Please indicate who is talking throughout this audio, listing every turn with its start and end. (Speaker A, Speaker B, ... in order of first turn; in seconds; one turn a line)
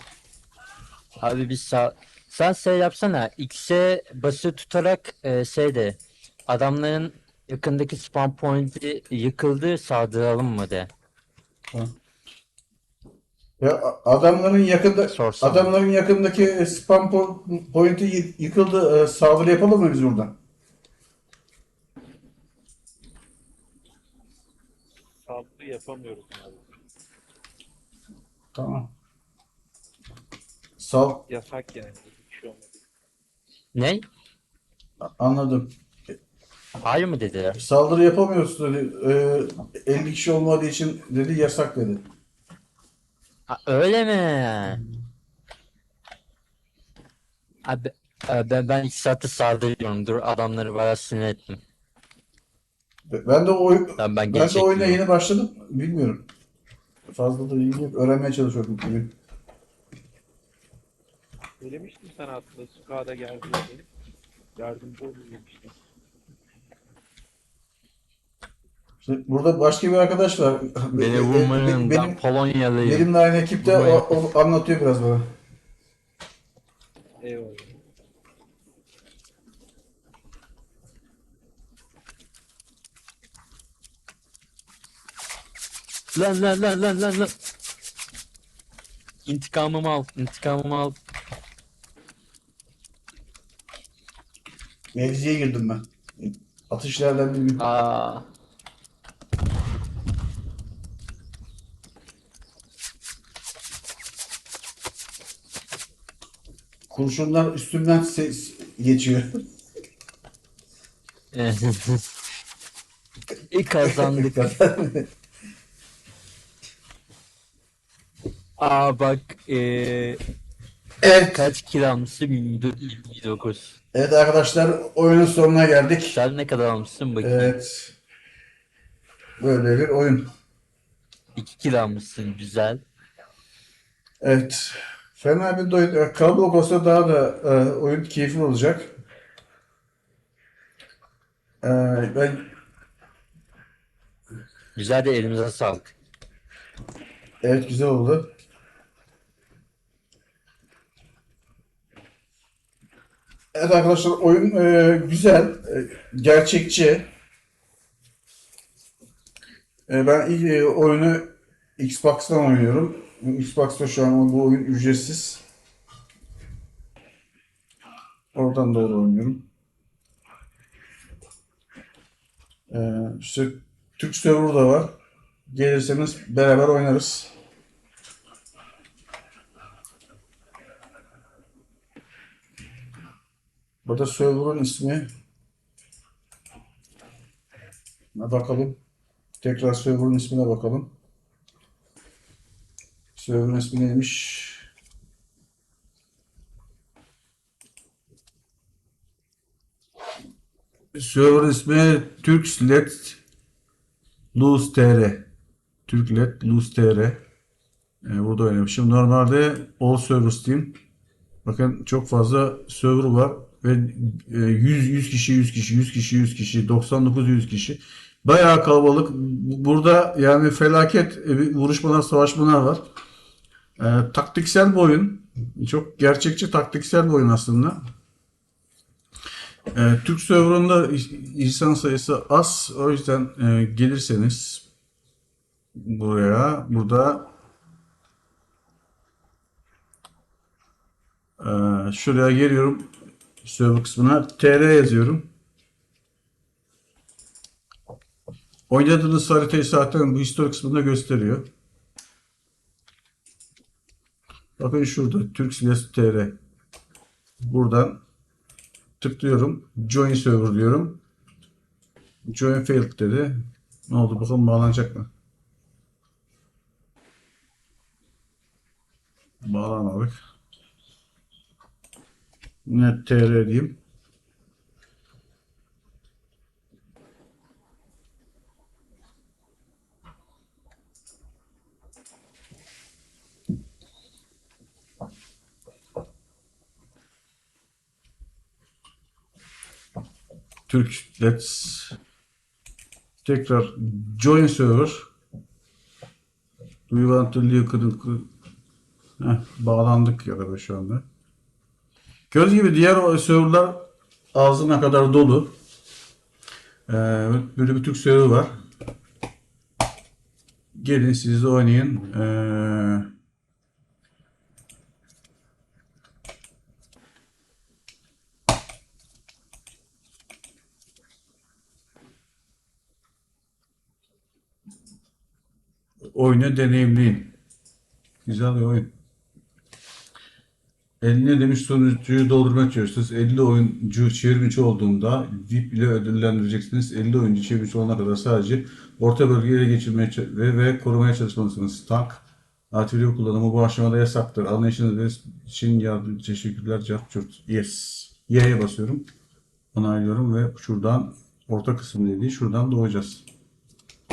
Speaker A: 1.2-10.9
Speaker B: 13.6-20.4
Speaker A: 15.1-15.7
Speaker C: 25.2-26.8
Speaker B: 28.5-28.9
Speaker B: 30.8-31.2
Speaker C: 31.3-32.8
Speaker A: 33.7-34.0
Speaker B: 35.0-35.7
Speaker A: 36.8-37.6
Speaker B: 37.6-42.1
Speaker A: 43.5-44.8
Speaker A: 47.6-51.6
Speaker B: 53.1-56.3
Speaker A: 54.0-55.0
Speaker B: 57.1-59.1
Speaker C: 61.6-63.9
Speaker C: 64.6-65.8
Speaker B: 69.0-72.2
Speaker A: 70.9-73.1
Speaker B: 72.8-75.3
Speaker A: 73.6-74.2
Speaker C: 77.2-77.7
Speaker A: 86.1-87.3
Speaker A: 89.3-91.0
Speaker B: 94.9-97.6
Speaker A: 97.6-98.3
Speaker B: 106.9-109.4
Speaker A: 111.3-112.0
Speaker A: 113.5-114.5
Speaker B: 113.8-115.1
Speaker A: 118.6-120.2
Speaker B: 121.0-121.5
Speaker A: 121.2-123.8
Speaker B: 123.9-126.2
Speaker A: 126.1-127.5
Speaker B: 127.2-128.0
Speaker B: 129.4-130.3
Speaker A: 131.4-132.8
Speaker B: 134.2-138.9
Speaker B: 141.6-142.5
Speaker A: 144.8-145.9
Speaker B: 147.4-148.3
Speaker B: 153.5-157.1
Speaker B: 159.9-165.4
Speaker B: 168.3-169.4
Speaker B: 172.7-174.9
Speaker B: 175.5-177.3
Speaker B: 183.8-185.1
Speaker B: 188.1-188.8
Speaker B: 189.4-190.9
Speaker B: 193.2-194.7
Speaker B: 200.9-203.2
Speaker B: 204.3-205.3
Speaker B: 205.9-207.2
Speaker B: 208.0-210.8
Speaker B: 211.4-222.9
Speaker B: 223.8-227.8
Speaker B: 229.7-234.7
Speaker B: 235.7-237.3
Speaker B: 241.4-242.9
Speaker B: 243.4-245.3
Speaker B: 248.7-251.5
Speaker B: 254.6-256.4
Speaker B: 257.4-258.0
Speaker B: 259.0-261.0
Speaker B: 262.3-265.1
Speaker B: 269.4-270.1
Speaker B: 272.6-273.8
Speaker B: 290.7-292.0
Speaker B: 293.2-295.1
Speaker B: 296.9-298.3
Speaker B: 299.2-301.1
Speaker B: 302.3-305.5
Speaker B: 306.9-308.6
Speaker B: 310.8-313.1
Speaker B: 326.1-327.3
Speaker B: 328.2-328.9
Speaker B: 331.0-349.1
Speaker B: 349.7-353.3